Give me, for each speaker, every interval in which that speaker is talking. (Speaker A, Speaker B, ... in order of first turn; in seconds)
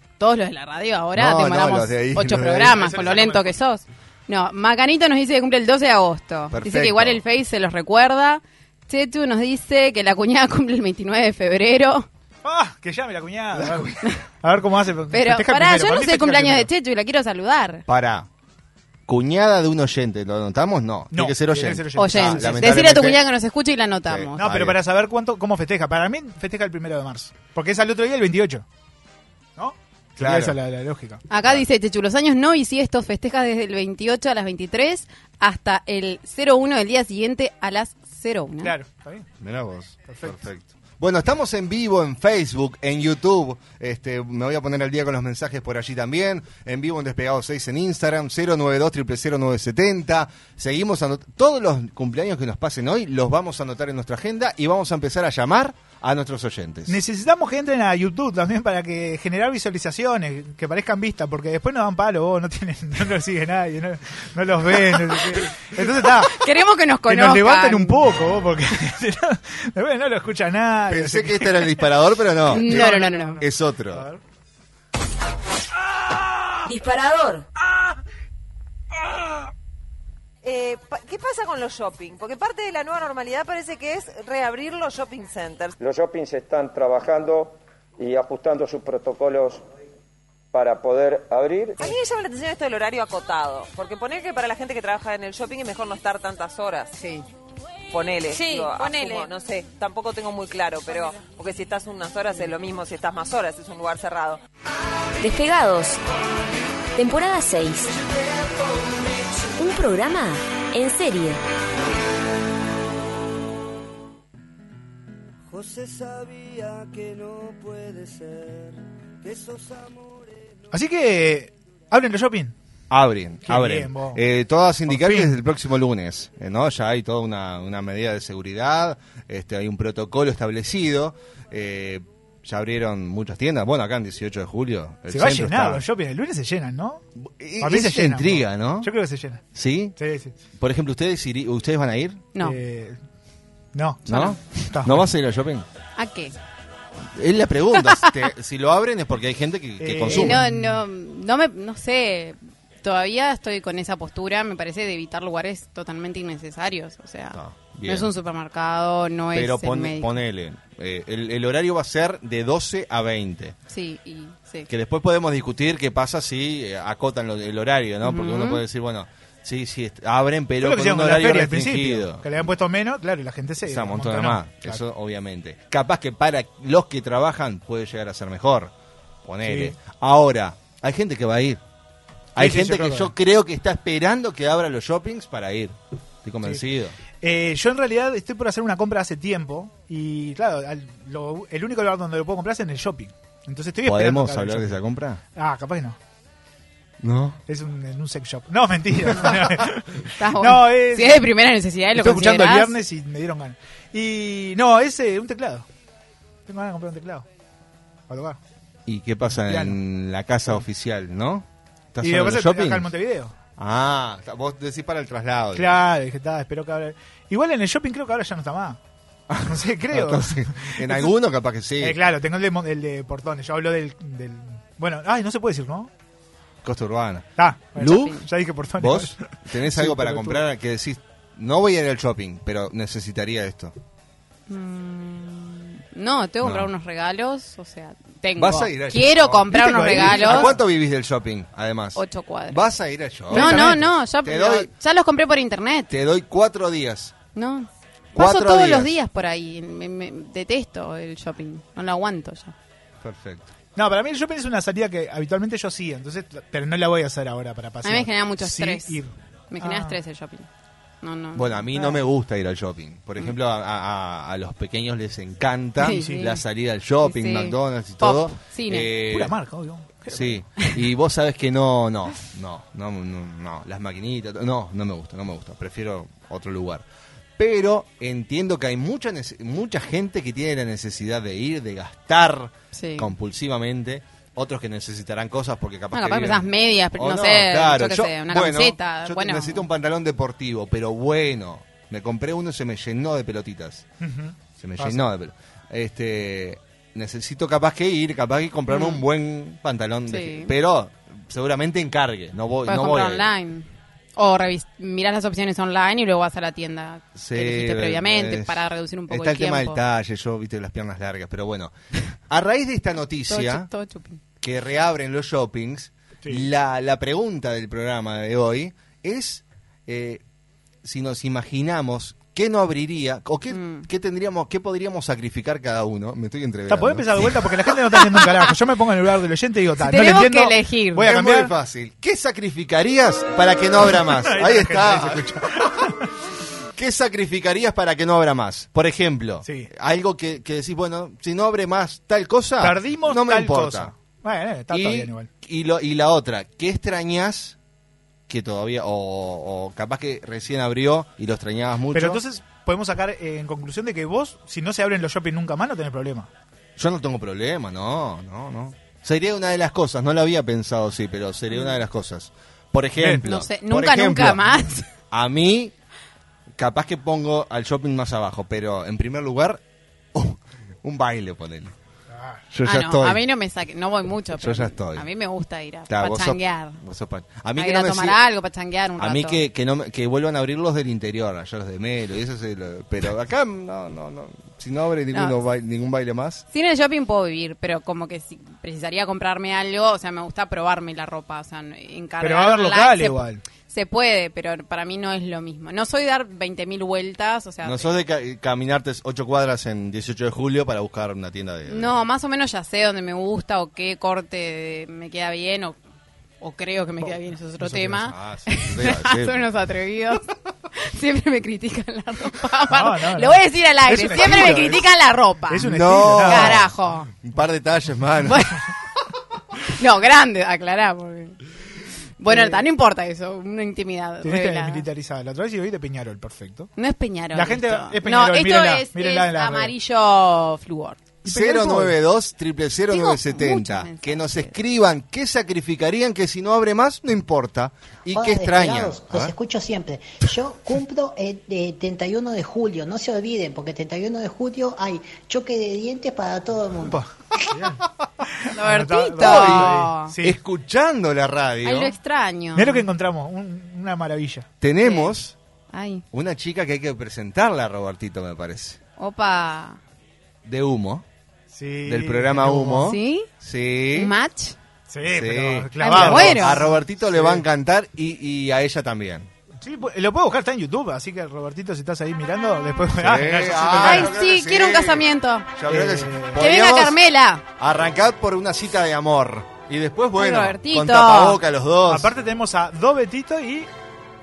Speaker A: 0.2-12.1, 15.1-17.8, 21.9-24.4, 31.3-38.7, 66.1-68.0, 72.5-73.4, 146.0-146.3, 147.8-148.1, 150.1-160.2, 163.7-164.7, 168.0-168.6, 200.2-202.8, 227.9-228.2, 234.5-240.5, 241.9-242.6, 243.3-245.9, 247.3-252.5, 257.8-260.5, 261.0-261.7, 265.8-266.4, 267.0-268.9, 282.7-283.1, 285.9-289.7, 298.7-299.0, 300.1-300.5, 302.7-309.8, 313.3-314.2, 323.5-323.9, 329.8-331.1, 361.5-361.8, 363.2-364.8, 372.6-376.8, 377.6-379.4, 386.5-397.9, 401.7-405.8, 406.4-417.1, 418.2-418.6, 419.7-421.4, 422.2-424.9, 426.8-431.0, 432.9-434.6, 448.5-450.1, 451.6-452.9, 454.8-455.1, 455.7-456.0, 459.0-459.8, 462.8-463.3, 463.9-464.6, 465.8-466.7, 473.7-475.5, 476.4-477.4, 480.2-481.4
Speaker B: 1.1-3.1, 6.5-7.2, 13.6-13.8, 17.9-18.3, 19.1-23.2, 24.1-24.8, 30.2-30.6, 39.4-57.0, 70.9-74.0, 122.9-135.8, 137.2-138.9, 139.5-140.0, 140.6-142.2, 144.1-145.7, 147.1-150.4, 157.3-158.1, 159.3-163.6, 164.7-172.3, 173.6-178.7, 179.2-181.6, 182.3-186.9, 193.8-195.2, 197.0-197.4, 208.9-212.9, 213.6-215.8, 219.3-222.0, 226.6-228.2, 228.8-233.8, 236.4-236.7, 238.4-244.7, 245.9-247.1, 248.1-248.9, 253.0-253.5, 261.3-269.3, 270.1-276.8, 277.4-293.9, 294.6-303.3, 307.1-311.7, 312.3-313.7, 314.4-320.2, 320.8-327.3, 331.0-335.4, 336.8-343.9, 344.7-347.6, 348.3-352.2, 356.8-364.4, 365.1-365.7, 366.6-369.6, 370.1-371.7, 372.5-373.2, 374.4-375.1, 375.9-378.2, 379.0-386.4, 397.6-401.9, 408.0-409.4, 415.6-416.7, 417.2-418.4, 431.2-439.3, 449.2-451.9, 454.6-455.3, 456.1-458.8, 460.4-461.0, 461.9-464.1, 465.0-469.3, 473.0-477.0, 477.6-482.1
Speaker C: 2.6-3.5, 12.4-16.7, 21.1-22.9, 24.4-28.6, 29.6-31.2, 38.6-39.2, 40.1-40.4, 56.9-66.4, 67.1-71.8, 72.5-74.2, 120.7-122.5, 123.5-124.2, 124.9-125.3, 135.1-137.0, 137.6-139.4, 140.0-140.3, 142.4-143.0, 143.7-145.0, 149.8-150.8, 170.6-174.8, 179.4-179.8, 182.4-183.1, 187.2-194.8, 195.3-196.0, 197.5-201.3, 201.9-205.7, 206.5-207.2, 208.1-208.4, 209.3-209.8, 212.0-213.3, 215.5-218.8, 219.4-221.1, 221.8-225.9, 227.4-230.4, 239.5-240.6, 243.3-243.9, 253.8-260.0, 266.0-266.3, 269.1-270.4, 294.0-295.0, 326.7-331.5, 333.9-336.0, 339.4-339.7, 342.6-345.3, 351.9-356.3, 392.2-393.4, 407.6-408.0, 412.7-414.9, 415.5-416.6, 422.3-422.6, 424.2-426.7, 427.3-429.7, 431.2-431.9, 446.8-447.8, 448.4-450.4, 452.5-454.5, 461.5-462.9, 464.9-467.4, 469.6-474.1, 475.7-476.4, 481.9-483.7
Speaker D: 76.6-77.5, 98.3-99.3, 105.2-106.0, 106.9-108.0, 109.6-111.4
Speaker E: 80.4-85.7, 91.8-97.2, 97.9-104.4
Speaker F: 85.8-89.6, 90.5-92.0
Speaker G: 115.5-120.4
Speaker H: 438.1-447.0